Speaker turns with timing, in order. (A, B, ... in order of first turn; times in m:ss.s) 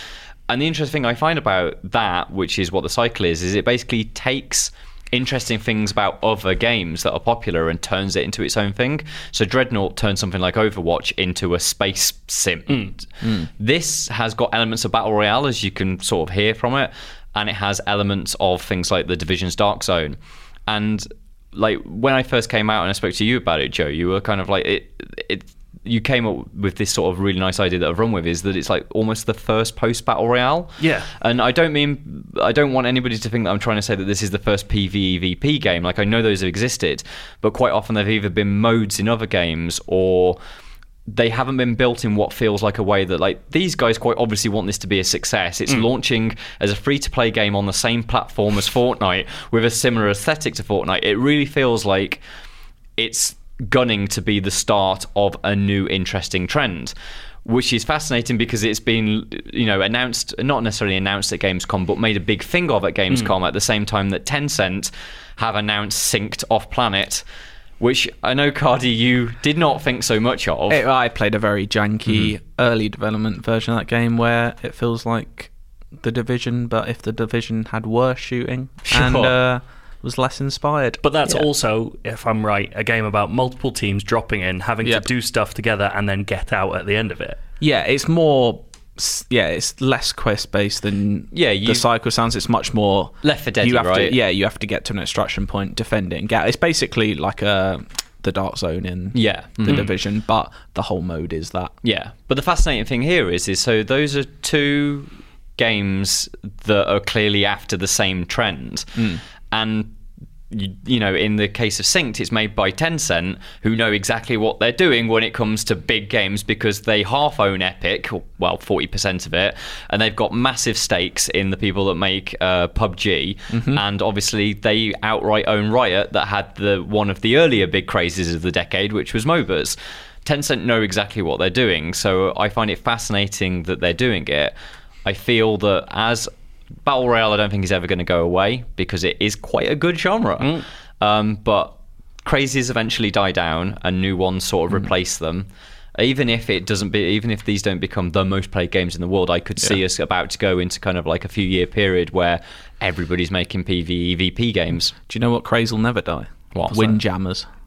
0:00.5-0:40.4 A
0:30.8-0:31.1 B
0:41.1-0:52.2 A
0:53.0-0:56.9 A
0:57.4-1:07.2 A
1:07.8-1:10.8 A
1:10.7-1:21.5 C
1:18.9-1:19.4 A
1:21.0-1:27.4 B
1:27.6-1:41.7 C
1:31.3-1:31.8 A
1:33.2-1:34.2 A
1:39.1-1:39.9 A
1:41.8-1:50.0 A
1:50.5-2:16.3 A
2:03.5-2:03.8 C
2:16.8-2:34.9 A
2:20.4-2:20.6 B
2:35.1-2:37.5 C
2:36.5-2:37.0 A